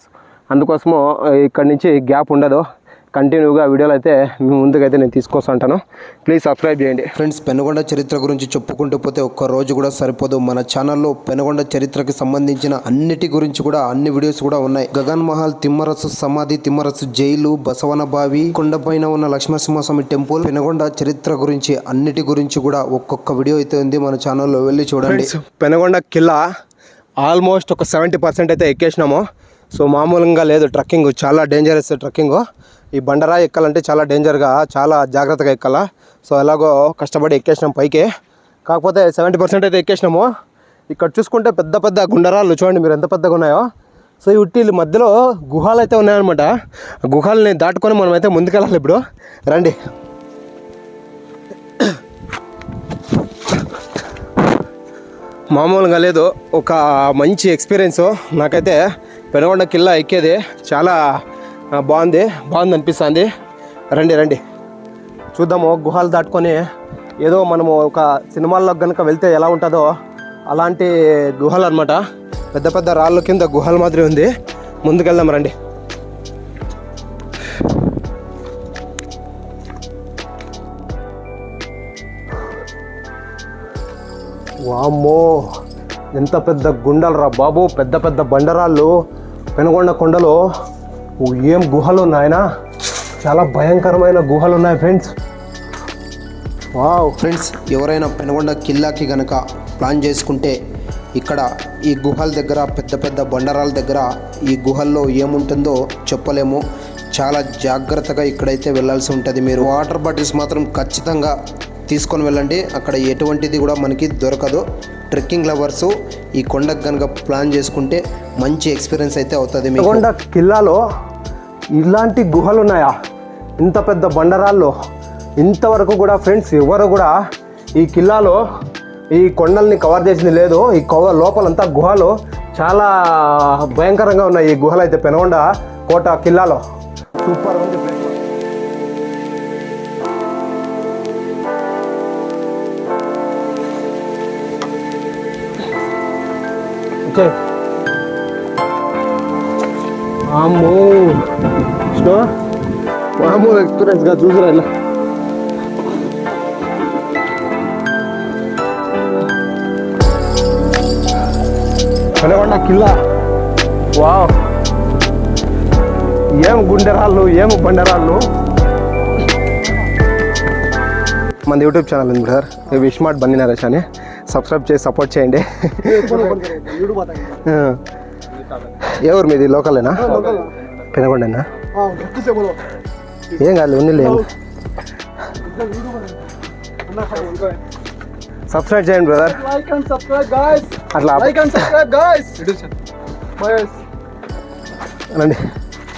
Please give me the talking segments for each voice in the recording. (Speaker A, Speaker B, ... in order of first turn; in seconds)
Speaker A: 0.5-7.1, 25.1-26.4, 27.2-32.4, 33.0-38.1, 38.7-40.3, 40.9-43.7, 44.2-46.5, 47.1-49.8, 55.5-58.8, 59.3-61.0, 61.8-63.3, 63.9-64.4, 65.3-66.6, 67.2-69.9, 70.5-72.0, 72.5-74.3, 74.8-75.5, 84.7-85.5, 86.1-88.9, 89.6-90.4, 91.2-92.4, 93.2-95.1, 96.8-97.2, 119.8-120.8, 121.8-122.9, 123.6-124.7, 125.4-127.2, 127.8-128.4, 129.2-136.6, 137.2-138.2, 147.1-147.3, 150.3-152.3, 153.2-154.7, 162.2-163.0, 163.9-164.4, 166.4-168.3, 171.5-176.4, 177.4-177.8, 178.8-181.5, 183.3-184.3, 188.5-189.5, 190.8-191.7, 195.1-195.4
Speaker B: 7.2-25.3, 97.2-100.6, 101.2-111.3, 111.9-120.0
Speaker C: 175.9-177.4, 180.0-180.6, 181.7-182.6, 185.4-186.3, 186.9-187.6, 189.3-192.7, 193.4-193.8